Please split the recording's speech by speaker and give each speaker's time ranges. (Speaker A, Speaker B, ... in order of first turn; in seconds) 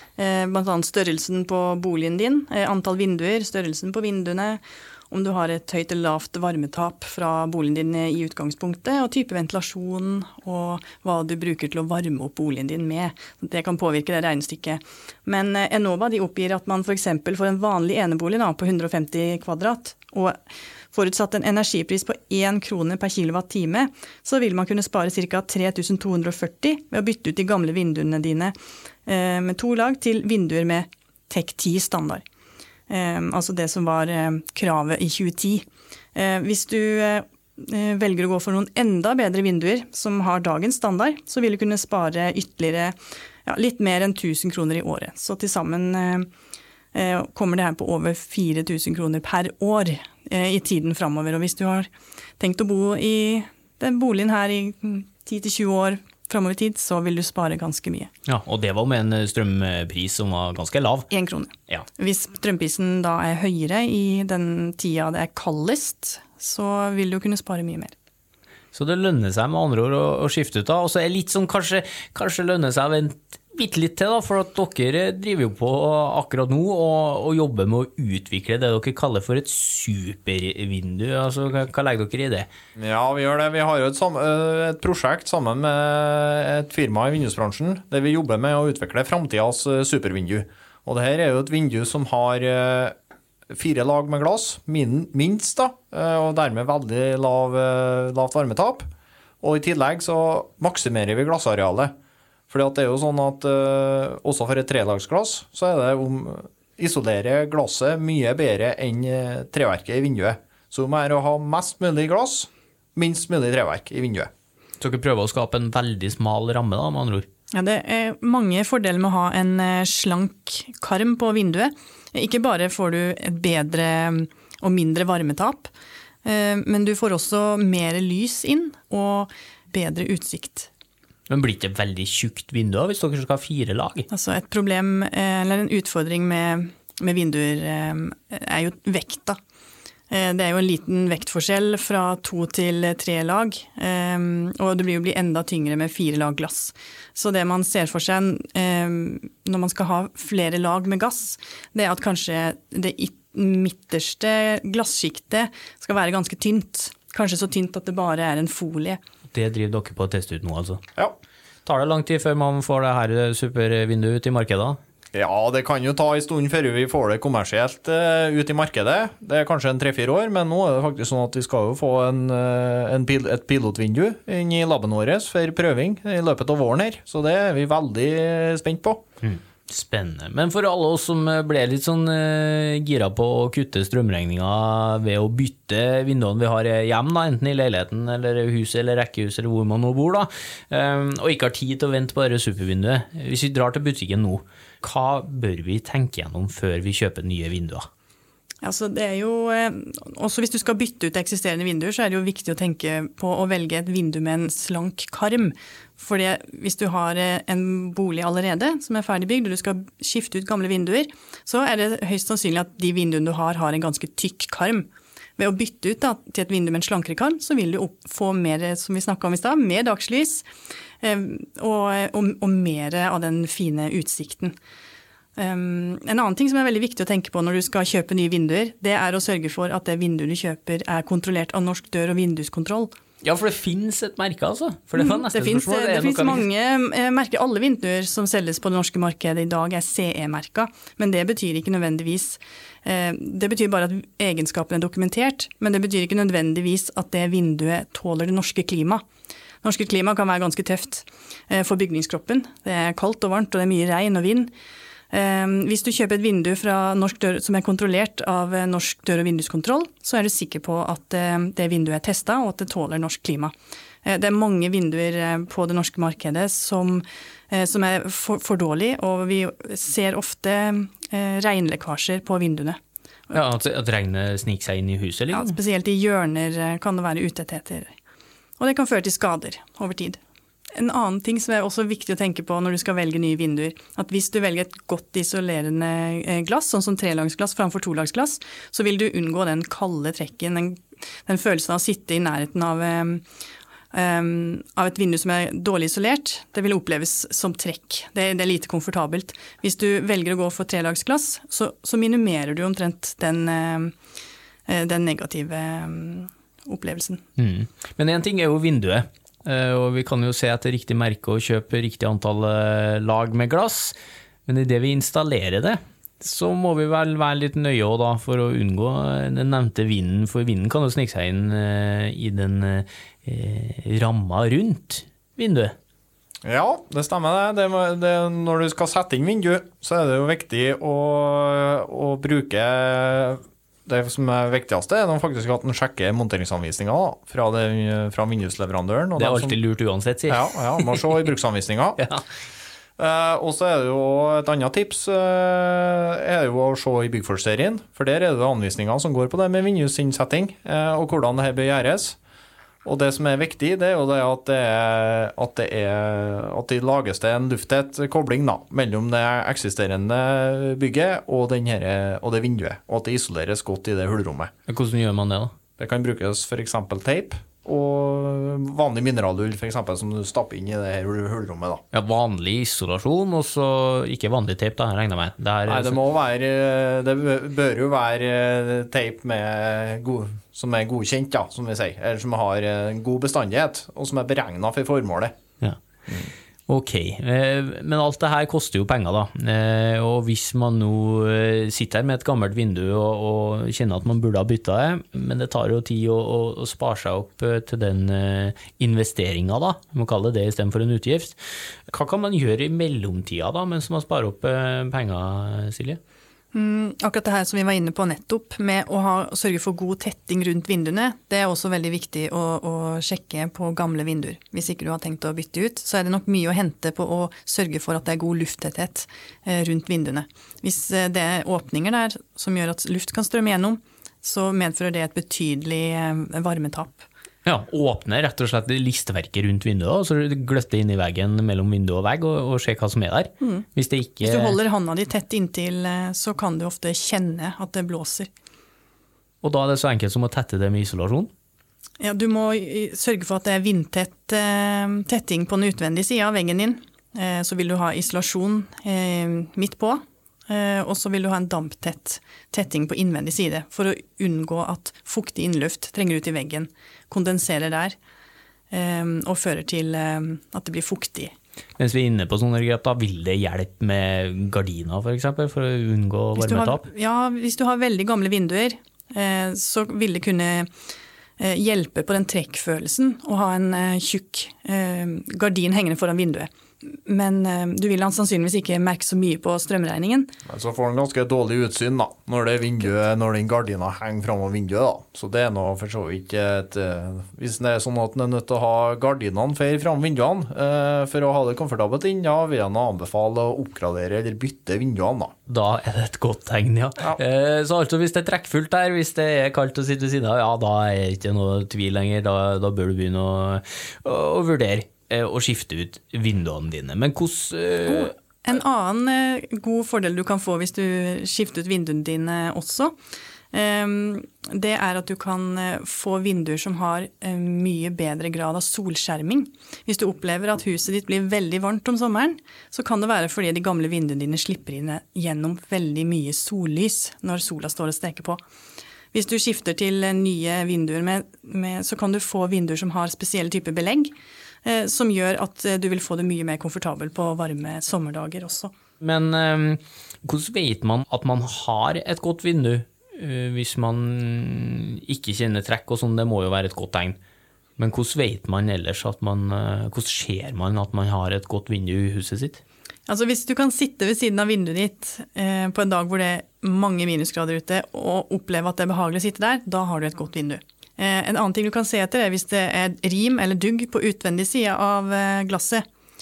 Speaker A: 0.2-20.4, 20.9-28.5, 29.1-32.2, 32.9-42.9, 43.5-46.3, 46.9-58.1, 61.1-67.9, 117.5-125.7, 126.2-130.7, 134.1-139.4, 140.1-159.0, 198.6-220.4, 221.0-224.5, 225.4-232.9, 234.9-249.0, 249.6-254.5, 255.1-263.5, 264.0-272.8, 275.3-277.9, 278.6-280.2, 280.8-293.2, 293.9-303.9, 304.7-307.2, 406.5-427.1, 433.4-433.7, 434.2-438.3, 442.0-457.9, 458.7-461.3, 466.4-470.7, 471.4-480.3, 507.9-512.9, 513.5-528.4, 529.1-534.1, 534.6-538.7, 553.1-565.8
Speaker B: 58.3-61.1, 68.7-82.5, 114.8-117.2, 131.3-134.1, 159.3-160.8, 161.6-164.8, 179.2-197.9, 233.2-236.4, 273.3-275.6, 307.4-313.9, 314.4-325.7, 339.2-341.3, 342.0-342.2, 364.7-365.5, 371.9-376.0, 386.7-401.4, 401.9-406.0, 427.4-434.5, 439.4-441.3, 461.8-466.8, 495.5-508.1, 539.0-547.2, 547.8-552.6
Speaker C: 82.8-92.9, 93.5-98.9, 99.4-101.9, 102.5-114.3, 165.1-179.0, 326.4-339.6, 340.3-342.0, 343.0-352.2, 352.8-364.5, 365.8-371.8, 375.7-385.3, 480.4-495.3